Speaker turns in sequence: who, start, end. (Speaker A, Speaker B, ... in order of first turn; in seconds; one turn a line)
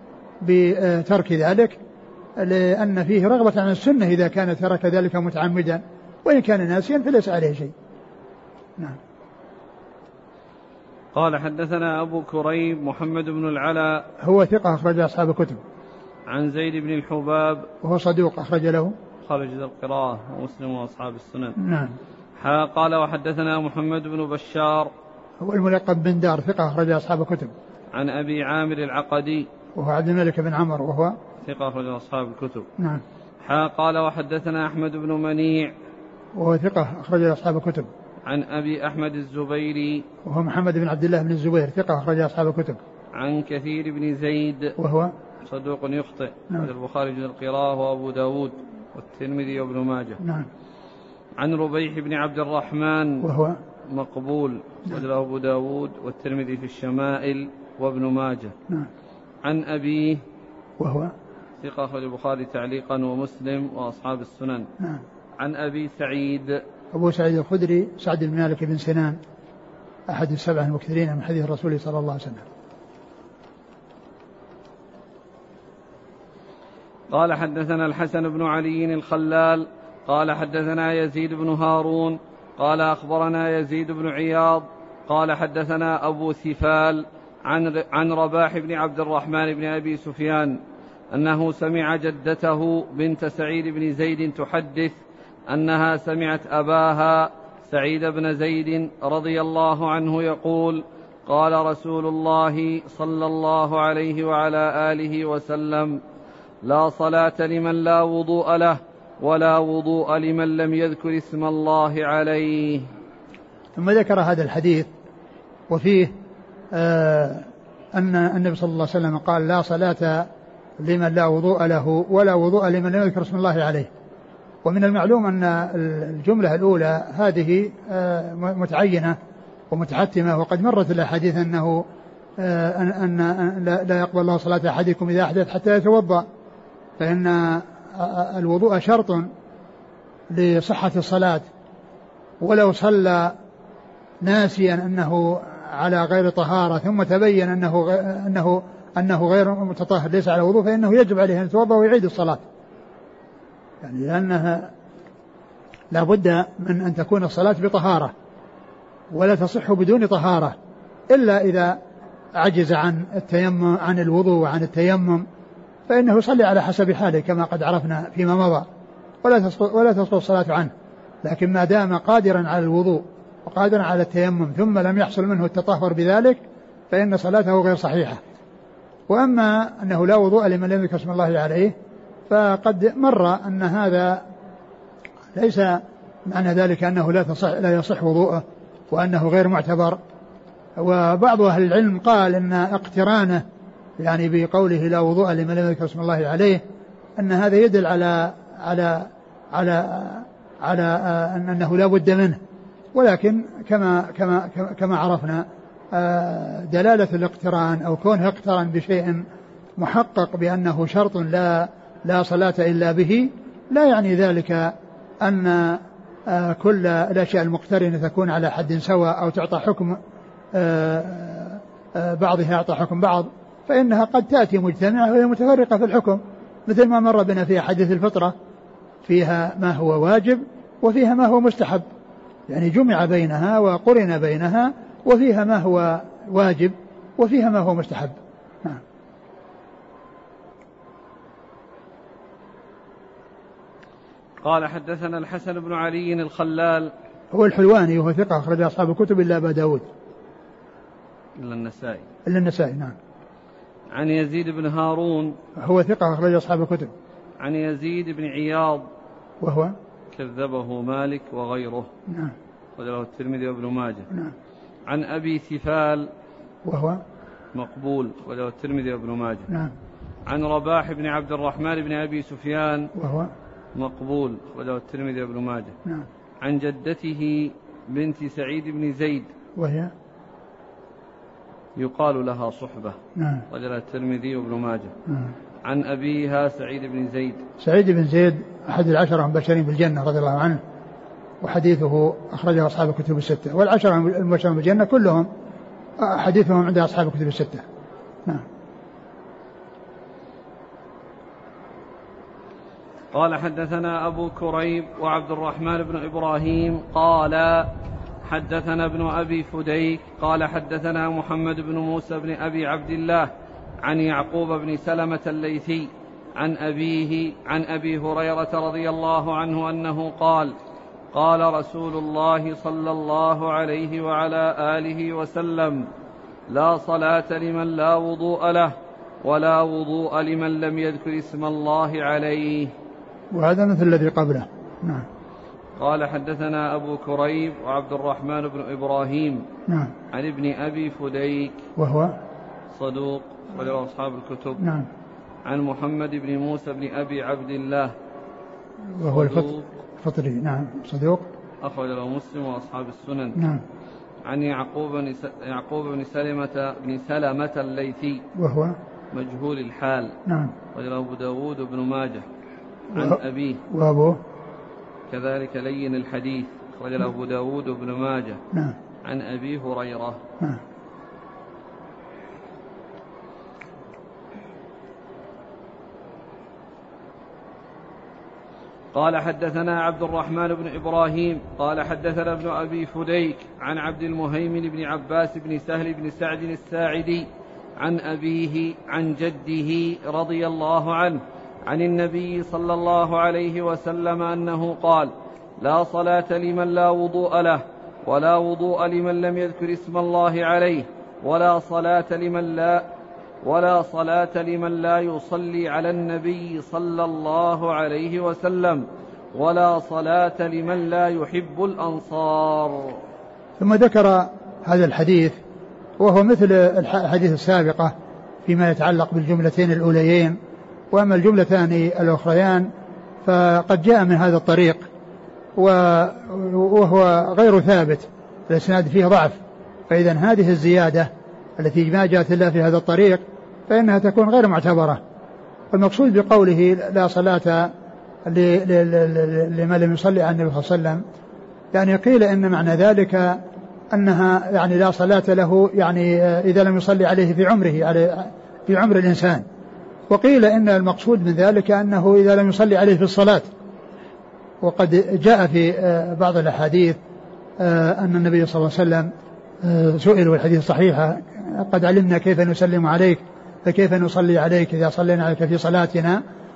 Speaker A: 0.4-1.8
Speaker A: 2.4-7.7
Speaker B: 11.1-14.1
Speaker A: 14.2-15.6
Speaker B: 16.3-17.7
Speaker A: 17.8-18.9
Speaker B: 19.2-21.6
Speaker A: 21.6-21.9
Speaker B: 22.4-24.9
Speaker A: 25.4-27.5
Speaker B: 27.9-29.5
Speaker A: 29.8-31.1
Speaker B: 31.4-32.7
Speaker A: 32.8-33.0
Speaker B: 33.4-35.7
Speaker A: 36.4-37.9
Speaker B: 38.2-40.0
Speaker A: 40.2-42.8
Speaker B: 43.1-44.8
Speaker A: 44.8-45.1
Speaker B: 45.4-50.2
Speaker A: 50.2-50.5
Speaker B: 51.4-53.3
Speaker A: 53.2-53.6
Speaker B: 53.9-58.5
Speaker B: 59.4-60.2
Speaker A: 60.8-61.1
Speaker B: 61.6-64.7
Speaker B: 65.4-66.6
Speaker A: 66.9-69.2
Speaker A: 70.1-72.5
Speaker B: 77.1-90.6
Speaker B: 91.1-106.0
Speaker B: 106.6-112.9
Speaker A: 113.8-114.9
Speaker A: 115.7-116.1
Speaker A: 116.7-120.3
Speaker A: 120.8-123.9
Speaker A: 124.6-129.2
Speaker A: 129.7-131.8
Speaker A: 132.4-136.2
Speaker A: 137.0-139.3
Speaker A: 140.3-141.5
Speaker A: 142.4-143.3
Speaker A: 144.2-152.4
Speaker A: 153.8-154.7
Speaker A: 155.9-158.1
Speaker A: 159.1-160.6
Speaker A: 161.1-161.8
Speaker A: 162.3-165.2
Speaker A: 165.9-168.7
Speaker A: 169.2-170.7
Speaker A: 171.2-176.4
Speaker A: 176.9-178.2
Speaker A: 179.1-181.7
Speaker A: 182.3-184.2
Speaker A: 185.3-190.0
Speaker A: 190.8-193.4
Speaker A: 194.0-196.6
Speaker A: 197.2-202.4
Speaker A: 202.9-209.2
Speaker A: 209.8-220.0
Speaker A: 220.5-228.3
Speaker A: 229.0-231.8
Speaker A: 232.5-238.8
Speaker B: 244.4-246.9
Speaker A: 247.3-249.9
Speaker B: 251.4-252.0
Speaker A: 252.2-252.9
Speaker B: 253.9-255.4
Speaker A: 255.6-256.9
Speaker B: 257.4-258.9
Speaker A: 259.4-259.7
Speaker B: 260.1-261.9
Speaker A: 262.1-262.3
Speaker B: 262.8-264.1
Speaker B: 264.9-266.1
Speaker A: 266.6-267.0
Speaker B: 267.5-269.5
Speaker B: 270.2-272.9
Speaker A: 272.9-273.3
Speaker B: 273.7-275.8
Speaker B: 276.4-279.3
Speaker A: 279.6-279.9
Speaker B: 281.8-284.9
Speaker A: 283.1-283.4
Speaker B: 285.6-287.4
Speaker A: 287.6-290.6
Speaker A: 291.4-295.3
Speaker A: 296.0-297.6
Speaker B: 303.1-307.7
Speaker B: 308.2-313.3
Speaker B: 313.8-320.5
Speaker B: 321.1-325.9
Speaker B: 326.5-332.7
Speaker A: 333.3-335.1
Speaker B: 335.8-339.5
Speaker A: 339.7-339.9
Speaker B: 340.1-341.6
Speaker A: 341.8-342.1
Speaker B: 342.7-344.6
Speaker A: 344.6-344.9
Speaker B: 345.4-347.9
Speaker A: 349.0-349.5
Speaker B: 349.0-349.7
Speaker A: 350.0-351.2
Speaker B: 351.6-353.4
Speaker A: 353.4-353.6
Speaker B: 354.2-358.2
Speaker A: 358.4-358.8
Speaker B: 359.1-360.2
Speaker A: 360.2-360.5
Speaker B: 360.7-362.3
Speaker B: 362.9-363.6
Speaker A: 363.7-364.2
Speaker B: 365.1-368.4
Speaker B: 369.0-370.2
Speaker B: 378.9-402.9
Speaker B: 403.4-413.0
Speaker A: 413.6-415.4
Speaker A: 416.0-417.9
Speaker A: 418.4-420.4
Speaker A: 420.9-422.7
Speaker A: 423.2-424.9
Speaker A: 425.6-435.0
Speaker A: 435.7-437.7
Speaker A: 438.2-441.0
Speaker A: 441.7-443.4
Speaker A: 443.9-449.4
Speaker A: 450.1-453.5
Speaker A: 454.6-457.0
Speaker A: 457.6-459.1
Speaker A: 459.6-466.2